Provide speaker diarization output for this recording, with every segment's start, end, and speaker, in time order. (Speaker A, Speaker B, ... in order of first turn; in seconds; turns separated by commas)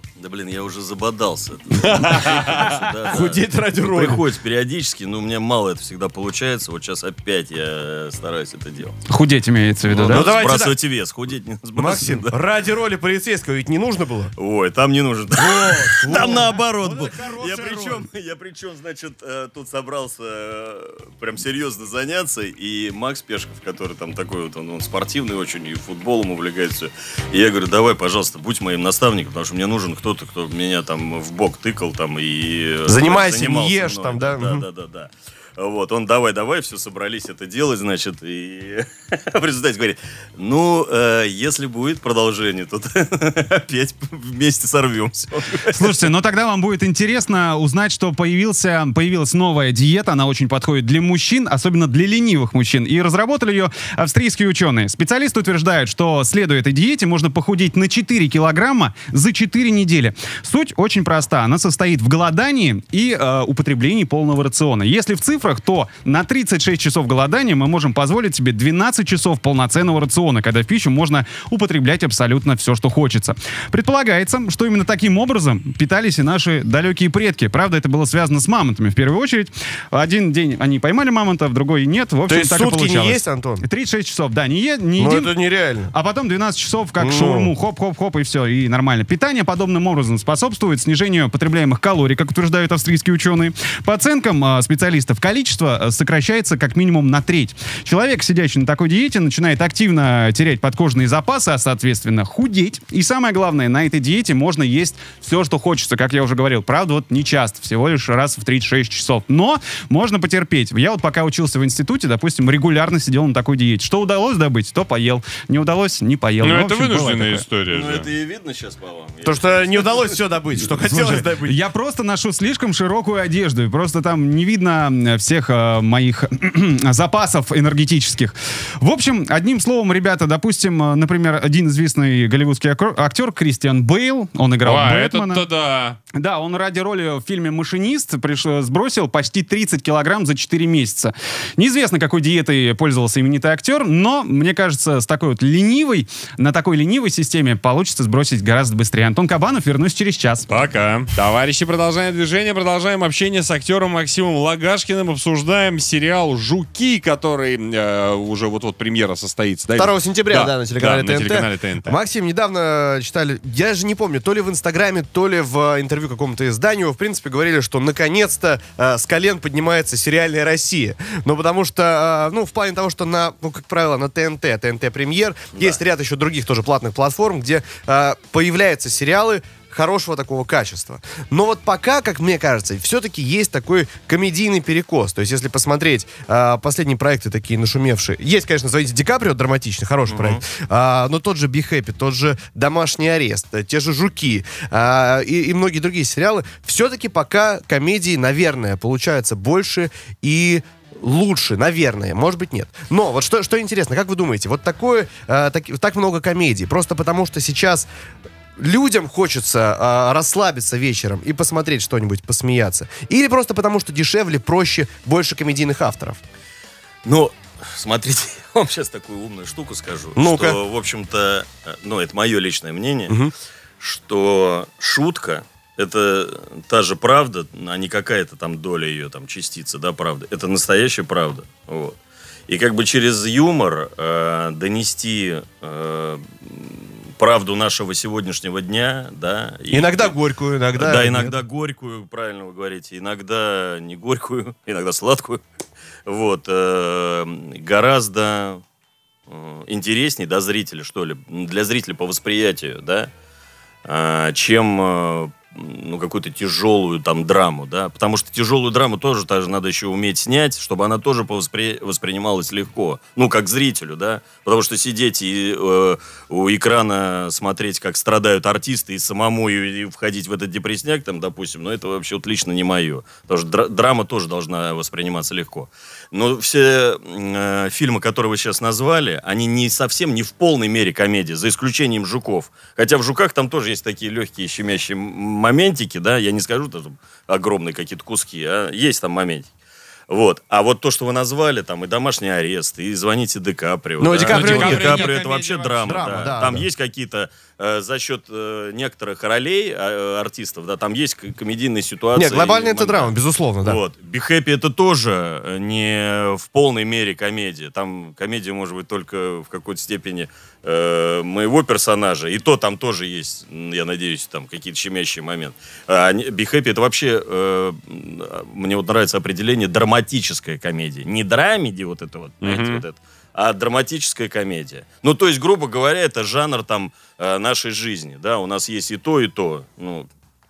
Speaker A: 0.2-8.9, Speaker B: 3.1-4.2, Speaker C: 9.1-10.3, Speaker A: 9.8-12.3, Speaker B: 10.0-10.8, Speaker B: 11.8-14.3, Speaker A: 14.3-46.0, Speaker B: 15.3-18.0, Speaker B: 32.9-34.6, Speaker C: 45.7-85.3, Speaker B: 82.3-83.6, Speaker B: 85.0-85.9, Speaker C: 85.9-117.4, Speaker B: 87.0-87.5, Speaker D: 116.4-118.1, Speaker A: 117.7-120.2, Speaker B: 119.2-121.6, Speaker C: 120.7-135.4, Speaker D: 134.6-136.0, Speaker C: 136.1-150.6, Speaker D: 150.5-161.9, Speaker B: 159.8-207.9, Speaker A: 175.5-175.8, Speaker A: 190.1-190.4, Speaker B: 208.6-216.2, Speaker A: 217.0-223.2, Speaker B: 220.2-220.6, Speaker A: 223.8-240.2, Speaker B: 239.7-241.3, Speaker A: 240.8-245.4, Speaker A: 246.1-248.6, Speaker A: 249.3-253.1, Speaker A: 253.8-289.5, Speaker A: 290.1-330.1, Speaker B: 294.0-295.1, Speaker D: 294.2-296.1, Speaker B: 295.8-296.7, Speaker B: 302.1-303.8, Speaker D: 322.4-322.8